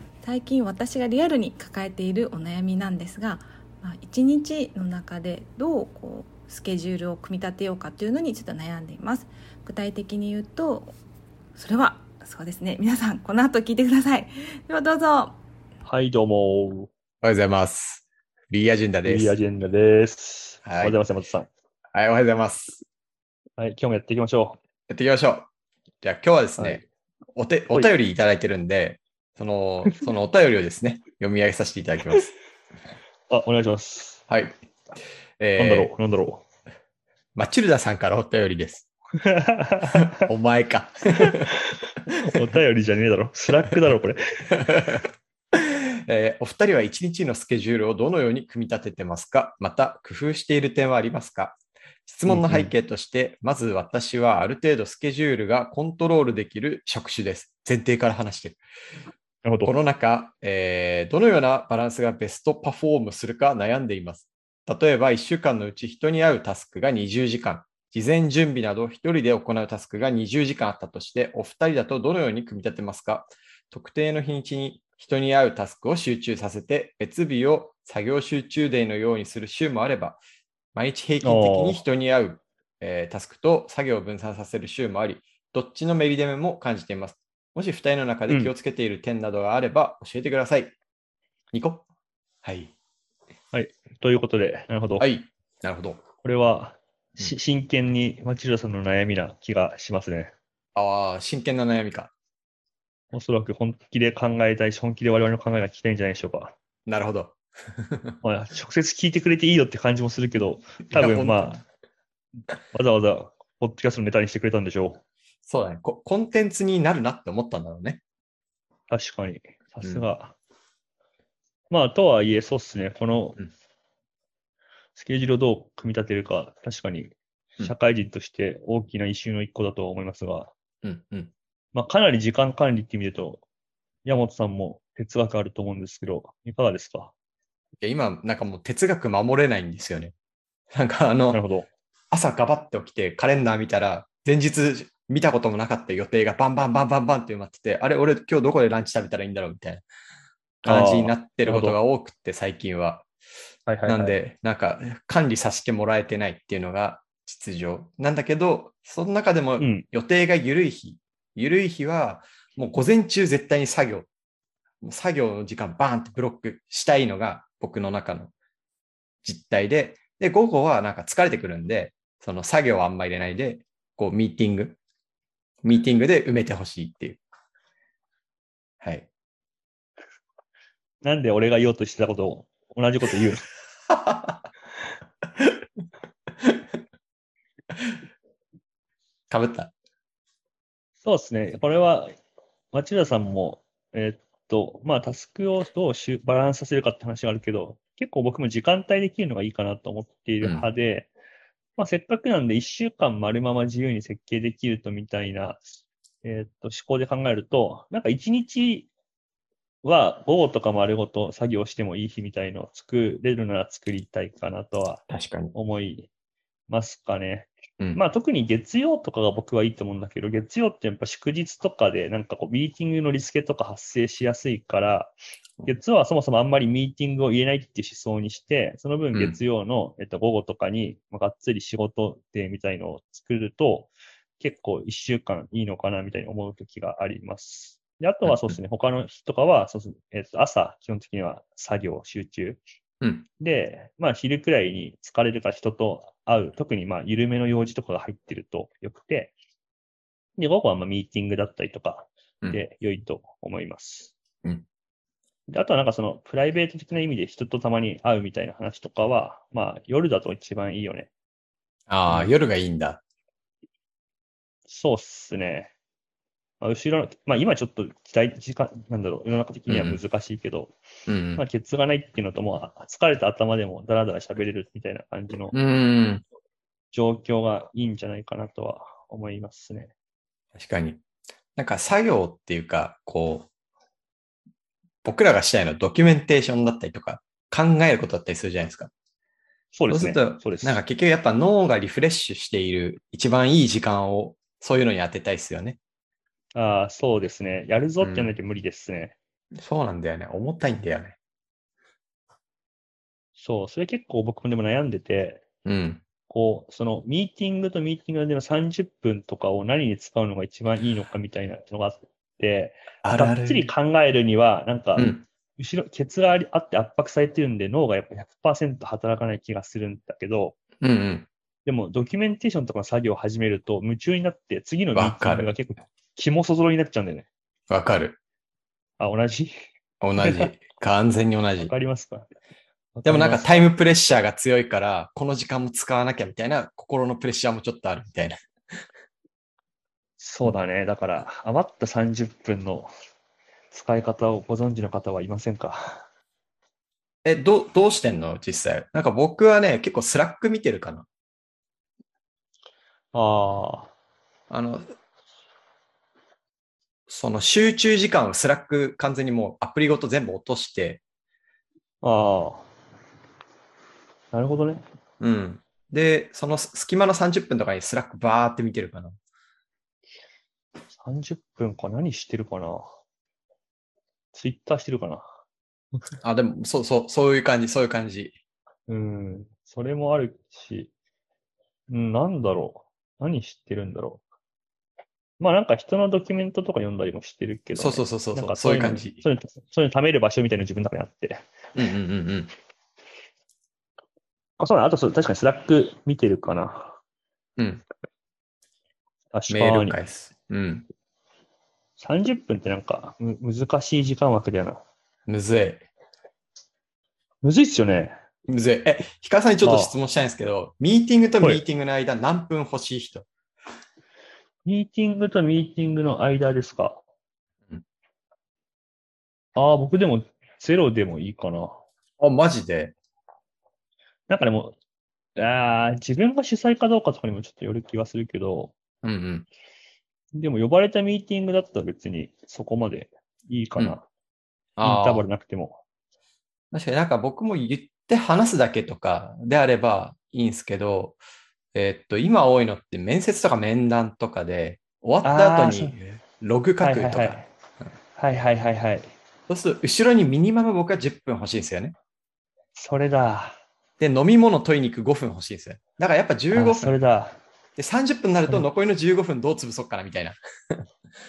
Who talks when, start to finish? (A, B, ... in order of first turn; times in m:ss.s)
0:00.2-0:10.9 A
0:11.5-0:15.4 A
0:15.8-0:16.9 B
0:17.2-0:19.4 C
0:19.0-0:21.5 B
0:20.6-0:21.0 C
0:21.9-0:22.8 C
0:23.6-0:24.6 B
0:24.9-0:25.5 C
0:26.0-0:26.8 C
0:26.6-0:26.9 B
0:27.4-0:32.3 C
0:33.3-0:34.2 B
0:34.3-0:34.6 C
0:35.4-0:35.9 C
0:35.6-0:36.4 B
0:37.3-0:38.9 C
0:39.2-0:40.1 B
0:40.1-0:41.5 C
0:41.2-0:44.5 B
0:44.5-0:58.6 C
0:52.3-0:52.7 B
0:59.4-0:59.7 B
0:59.6-1:20.2 C
1:20.7-1:30.8 C
1:21.2-1:21.8 B
1:31.5-1:31.8 C
1:32.4-1:32.7 C
1:33.5-1:35.1 B
1:35.0-1:36.0 C
1:36.2-1:40.3 B
1:40.7-1:42.1 C
1:43.1-1:46.5 B
1:46.9-1:48.2 C
1:48.2-1:51.6 B
1:50.9-1:51.6 C
1:52.7-1:55.0 B
1:55.4-1:58.0 C
1:58.9-2:00.3 B
2:01.7-2:03.4 B
2:05.0-2:10.5 B
2:10.8-2:11.3 C
2:11.7-2:13.4 B
2:14.0-2:17.1 B
2:17.8-2:20.1 C
2:20.7-2:21.4 C
2:21.3-2:21.7 B
2:22.1-2:29.8 C
2:30.6-2:33.1 C
2:30.6-2:31.8 B
2:33.7-2:34.1 B
2:33.9-2:44.1 C
2:39.6-2:39.8 B
2:44.8-2:48.3 C
2:49.2-2:54.8 C
2:55.6-2:57.2 C
2:58.8-2:59.1 C
3:01.0-3:03.5 B
3:03.9-3:04.3 C
3:09.3-3:09.7 C
3:11.0-3:12.1 B
3:12.7-3:21.1 B
3:20.4-3:20.7 C
3:21.8-3:25.6 B
3:26.2-3:28.9 B
3:29.8-3:36.1 B
3:35.1-3:35.5 C
3:36.7-4:02.6 B
3:58.2-3:58.6 C
4:03.0-4:03.2 C
4:03.4-4:09.3 B
4:10.4-4:14.1 B
4:15.5-4:21.1 B
4:21.9-4:23.0 C
4:24.7-4:25.7 B
4:26.6-4:30.7 B
4:29.7-4:30.0 C
4:31.1-4:31.4 C
4:31.4-4:35.6 B
4:35.5-4:36.2 C
4:36.9-4:39.9 B
4:40.6-4:41.0 C
4:41.6-4:43.5 C
4:45.0-4:48.9 C
4:49.7-4:50.8 B
4:49.9-4:55.8 C
4:56.5-4:59.1 B
4:58.0-4:58.3 C
4:59.6-5:01.2 C
5:03.4-5:05.4 B
5:05.6-5:06.0 C
5:06.3-5:20.6 B
5:13.0-5:13.6 C
5:15.0-5:15.2 C
5:20.8-5:21.3 C
5:21.6-5:27.3 B
5:24.9-5:25.5 C
5:27.7-5:28.2 C
5:29.0-5:29.6 B
5:30.0-5:31.7 C
5:31.6-5:32.3 B
5:32.9-5:33.7 B
5:33.0-5:38.4 C
5:40.2-5:42.9 B
5:43.7-5:46.0 B
5:47.2-5:51.1 C
5:53.1-5:53.9 B
5:54.5-5:54.9 C
5:57.1-6:01.0 C
6:02.0-6:02.7 B
6:04.3-6:04.8 B
6:05.2-6:09.2 C
6:11.0-6:12.9 B
6:14.3-6:15.3 B
6:16.2-6:18.4 C
6:18.9-6:20.9 B
6:21.9-6:24.2 B
6:25.4-6:31.4 B
6:27.7-6:29.2 C
6:31.7-6:32.5 C
6:34.6-6:37.0 B
6:37.6-6:37.8 C
6:39.3-6:40.0 B
6:39.5-6:40.9 C
6:42.0-6:44.8 B
6:45.3-6:45.9 C
6:47.4-6:48.1 B
6:48.5-6:53.3 C
6:49.6-6:50.0 B
6:54.6-6:57.0 B
6:59.5-7:01.8 B
7:02.2-7:03.0 C
7:04.3-7:04.8 B
7:05.4-7:08.7 B
7:09.0-7:09.5 C
7:10.3-7:14.0 B
7:14.8-7:15.3 C
7:14.8-7:15.8 B
7:16.7-7:21.2 C
7:21.7-7:27.4 C
7:25.2-7:26.0 B
7:26.8-7:27.5 B
7:28.2-7:29.1 B
7:29.5-7:31.9 C
7:32.7-7:33.6 B
7:34.0-7:37.0 C
7:36.5-7:37.4 B
7:37.8-7:40.8 C